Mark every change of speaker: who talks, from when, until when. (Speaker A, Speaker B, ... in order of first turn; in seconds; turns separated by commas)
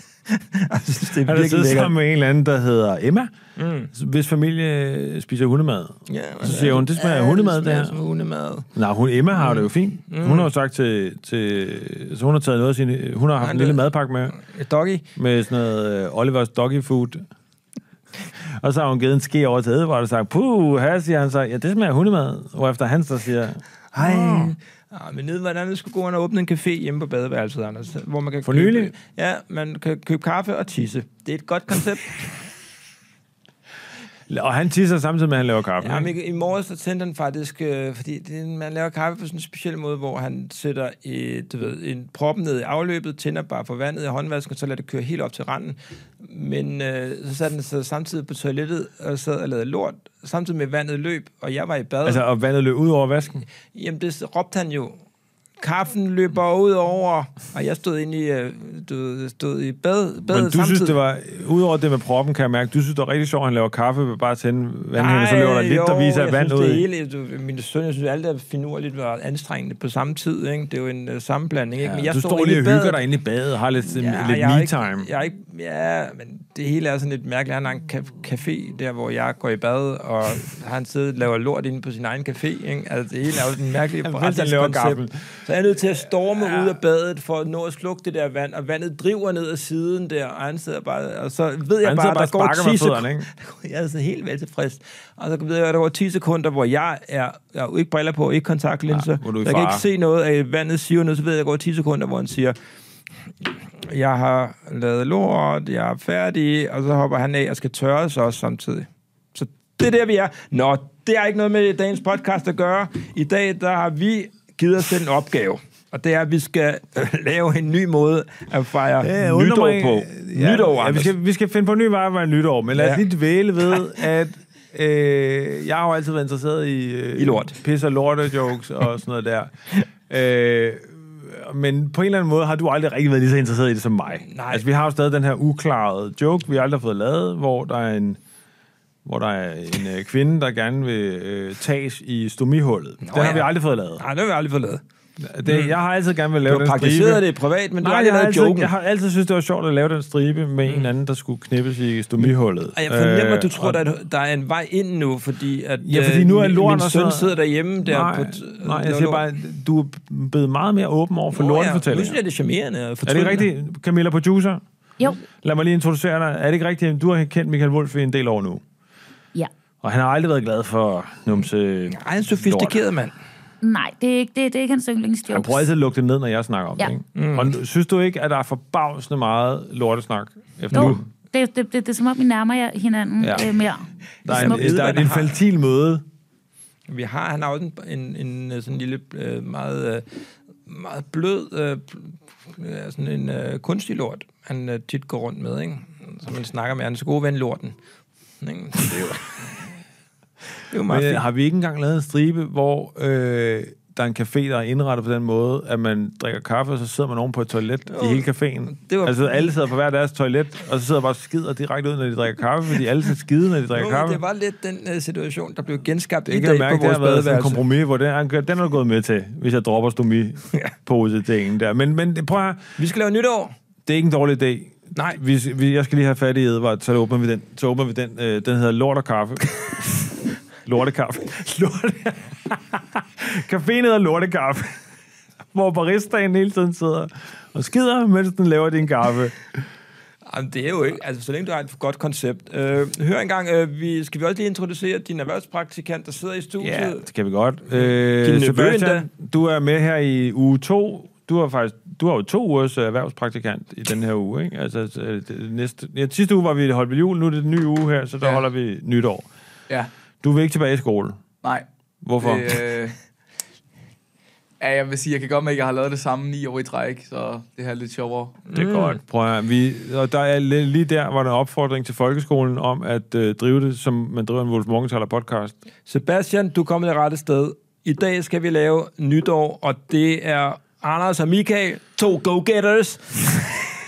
Speaker A: 0.3-1.9, Speaker B: 1.2-3.3, Speaker A: 3.6-3.9, Speaker B: 3.9-8.0, Speaker A: 6.1-8.7, Speaker B: 8.8-14.4, Speaker A: 9.4-10.5, Speaker A: 13.4-15.1, Speaker B: 15.2-17.2, Speaker B: 18.4-24.5, Speaker A: 23.9-32.2, Speaker B: 28.4-28.9, Speaker B: 34.3-36.1, Speaker A: 35.8-52.2, Speaker B: 52.0-53.4, Speaker A: 53.7-55.0, Speaker A: 55.6-61.0, Speaker B: 60.3-66.8, Speaker A: 64.9-73.0, Speaker B: 71.8-75.1, Speaker A: 73.8-102.6, Speaker B: 84.0-85.2, Speaker B: 91.8-93.3, Speaker B: 98.9-99.8, Speaker A: 103.5-121.1, Speaker B: 119.0-138.2, Speaker A: 122.7-123.0, Speaker A: 127.2-127.6, Speaker A: 134.2-134.7, Speaker B: 139.0-144.0, Speaker A: 143.0-144.8, Speaker B: 145.2-147.2, Speaker A: 145.5-145.7, Speaker A: 146.5-148.7, Speaker B: 147.8-153.8, Speaker A: 152.7-159.2, Speaker B: 155.8-162.2, Speaker A: 161.3-163.5, Speaker B: 163.0-164.6, Speaker B: 165.2-168.6, Speaker B: 169.8-172.8, Speaker A: 171.9-173.1, Speaker C: 173.6-175.6, Speaker B: 175.3-181.0, Speaker A: 177.2-177.5, Speaker C: 180.7-185.0, Speaker B: 183.2-183.6, Speaker B: 184.2-186.0, Speaker A: 184.3-185.3, Speaker A: 186.9-190.1, Speaker A: 190.7-197.8, Speaker A: 198.4-199.5, Speaker A: 200.7-201.3, Speaker B: 200.8-214.2, Speaker A: 207.9-209.5, Speaker A: 213.7-217.6, Speaker B: 216.2-222.7, Speaker A: 222.8-223.5, Speaker B: 223.8-230.1, Speaker B: 230.7-234.8, Speaker B: 235.5-239.4, Speaker A: 240.3-247.1, Speaker B: 246.6-259.3, Speaker A: 247.8-249.1, Speaker B: 260.2-261.2, Speaker B: 262.0-262.6, Speaker D: 262.2-263.0, Speaker D: 264.6-268.5, Speaker A: 268.5-269.0, Speaker B: 268.5-275.5, Speaker A: 275.9-283.8